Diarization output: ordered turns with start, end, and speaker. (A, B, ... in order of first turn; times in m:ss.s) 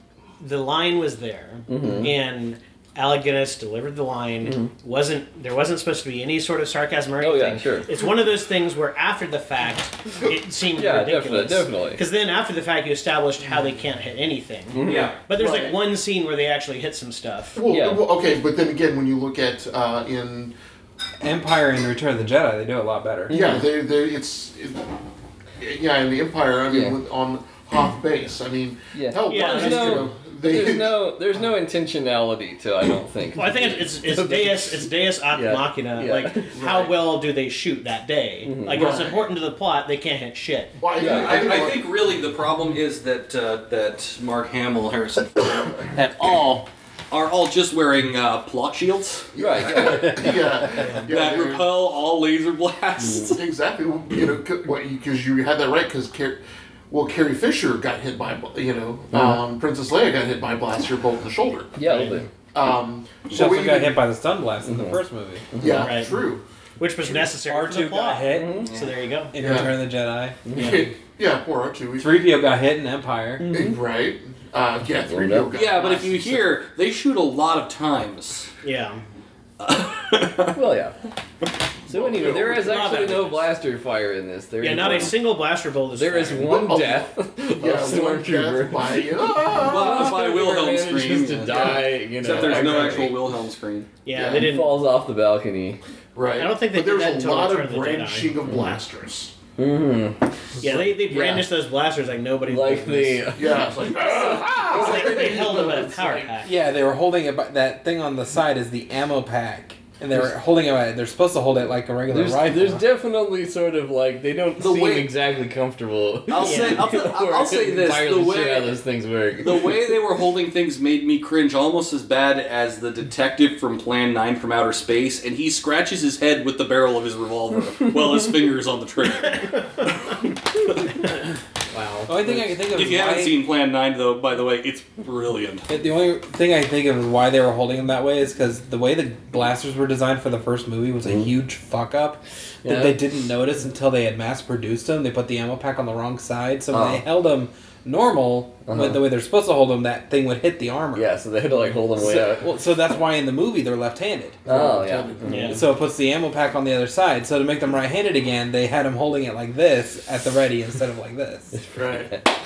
0:00.4-0:17.6 A
0:01.7-0:02.1 B
0:04.4-0:04.7 B
0:07.2-0:07.9 B
0:10.7-0:12.0 B
0:14.7-0:15.1 B
0:14.8-0:15.1 C
0:15.3-0:15.8 D
0:17.5-0:20.5 D
0:17.7-0:18.0 B
0:21.2-0:23.4 E
0:23.3-0:23.6 B
0:23.3-0:24.9 D
0:25.6-0:31.0 D
0:26.7-0:27.0 B
0:28.9-0:36.7 B
0:29.2-0:30.1 A
0:33.4-0:40.8 A
0:36.6-0:36.9 D
0:38.4-0:39.0 B
0:38.7-0:39.2 D
0:40.8-0:41.9 D
0:41.0-0:49.3 C
0:41.0-0:41.5 B
0:49.3-0:51.7 D
0:49.4-0:50.4 B
0:50.8-0:51.0 A
0:51.0-0:53.4 C
0:53.3-1:01.8 D
0:59.1-0:59.4 B
1:01.8-1:02.3 B
1:01.8-1:02.2 A
1:02.5-1:04.0 D
1:03.3-1:05.5 E
1:04.6-1:05.0 B
1:05.5-1:05.9 B
1:05.6-1:06.4 D
1:05.7-1:06.2 A
1:06.8-1:09.3 A
1:07.2-1:08.6 E
1:08.3-1:08.7 B
1:09.3-1:10.8 E
1:09.4-1:09.8 D
1:10.4-1:10.8 B
1:10.5-1:12.2 D
1:12.0-1:13.5 E
1:13.4-1:13.8 B
1:13.5-1:16.6 D
1:15.1-1:15.5 B
1:15.5-1:18.5 C
1:18.6-1:19.0 A
1:19.6-1:20.6 C
1:20.5-1:20.9 B
1:21.9-1:22.8 D
1:21.9-1:25.2 B
1:22.2-1:23.5 A
1:24.6-1:26.6 A
1:25.9-1:33.2 B
1:26.4-1:30.0 D
1:29.5-1:33.9 C
1:31.5-1:31.8 D
1:32.3-1:32.8 D
1:34.0-1:34.8 A
1:34.1-1:34.5 D
1:34.3-1:35.8 B
1:36.1-1:39.3 D
1:36.4-1:38.4 A
1:38.5-1:38.8 B
1:39.6-1:41.5 B
1:40.6-1:43.3 A
1:42.4-1:46.3 B
1:43.3-1:45.9 D
1:44.5-1:46.6 A
1:46.4-1:52.8 E
1:52.1-1:59.9 B
1:54.6-1:55.1 C
1:56.3-1:58.8 C
1:56.4-1:56.9 A
1:59.4-2:10.9 C
2:11.7-2:12.1 A
2:12.1-2:13.4 E
2:12.6-2:15.7 C
2:15.7-2:31.1 E
2:22.6-2:23.0 B
2:26.7-2:27.0 B
2:28.7-2:29.0 B
2:30.9-2:32.5 B
2:31.7-2:34.4 E
2:34.4-2:35.6 D
2:34.4-2:35.7 B
2:35.3-2:35.6 A
2:35.5-2:41.5 E
2:41.6-2:42.3 B
2:41.7-2:42.1 D